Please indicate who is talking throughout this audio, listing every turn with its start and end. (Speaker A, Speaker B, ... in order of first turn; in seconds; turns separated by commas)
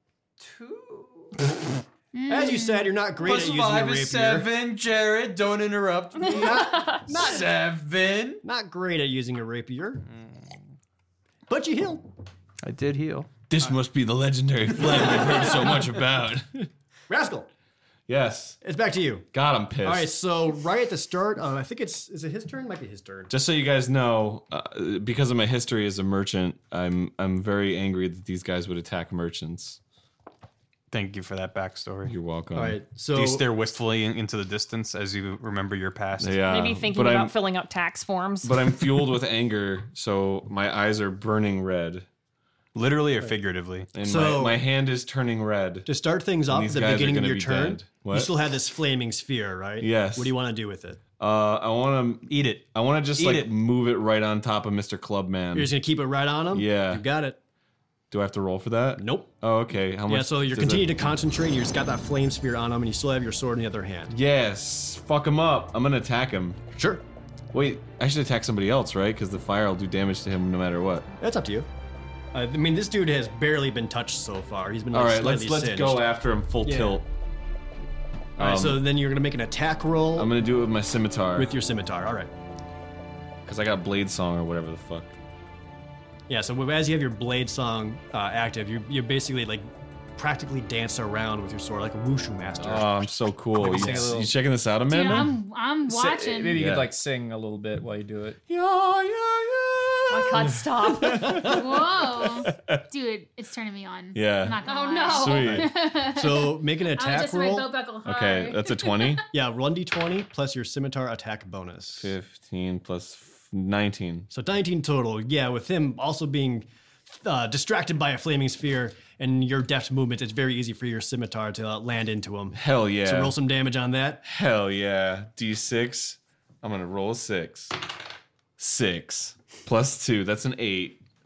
Speaker A: 0.4-1.5, Speaker B: 2.1-2.9, Speaker C: 2.3-4.5, Speaker A: 3.2-8.4, Speaker C: 6.2-7.5, Speaker C: 8.4-10.0, Speaker A: 10.1-10.6, Speaker C: 11.5-12.1, Speaker A: 12.6-13.3, Speaker D: 13.5-16.6, Speaker C: 14.8-15.8, Speaker C: 17.1-17.5, Speaker D: 18.1-18.6, Speaker C: 18.6-19.3, Speaker D: 19.3-20.1, Speaker C: 19.8-23.3, Speaker D: 23.3-29.8, Speaker A: 30.9-32.1, Speaker D: 32.0-32.8, Speaker C: 32.5-33.5, Speaker A: 33.1-36.4, Speaker D: 36.2-37.4, Speaker E: 36.5-38.8, Speaker D: 38.4-42.0, Speaker A: 42.7-43.9, Speaker D: 43.9-45.9, Speaker C: 44.0-44.6, Speaker C: 45.9-51.0, Speaker D: 46.5-48.3, Speaker D: 49.8-50.3, Speaker D: 51.2-55.7, Speaker A: 52.3-53.5, Speaker C: 55.5-57.4, Speaker D: 56.5-57.0, Speaker D: 58.1-60.9, Speaker C: 59.0-59.3, Speaker C: 60.1-64.1, Speaker D: 64.1-66.6, Speaker C: 66.7-67.0, Speaker D: 67.5-71.1, Speaker C: 71.2-71.7, Speaker C: 72.3-76.1, Speaker D: 74.9-77.1, Speaker C: 76.6-77.0, Speaker D: 78.4-78.8, Speaker C: 78.4-80.3, Speaker D: 80.1-81.5, Speaker C: 81.3-82.3, Speaker D: 83.5-85.1, Speaker C: 86.3-94.2, Speaker D: 92.6-95.4, Speaker F: 93.5-94.3, Speaker B: 94.9-96.6, Speaker F: 95.9-98.4, Speaker D: 96.5-96.9, Speaker D: 98.5-102.8, Speaker E: 100.1-101.5, Speaker B: 101.4-109.2, Speaker D: 104.1-105.7, Speaker E: 104.6-105.5, Speaker C: 105.5-107.7, Speaker D: 108.0-109.2, Speaker C: 109.3-112.1, Speaker D: 112.0-114.3, Speaker C: 114.3-124.2, Speaker D: 122.5-123.3, Speaker D: 124.2-127.7, Speaker D: 128.6-131.0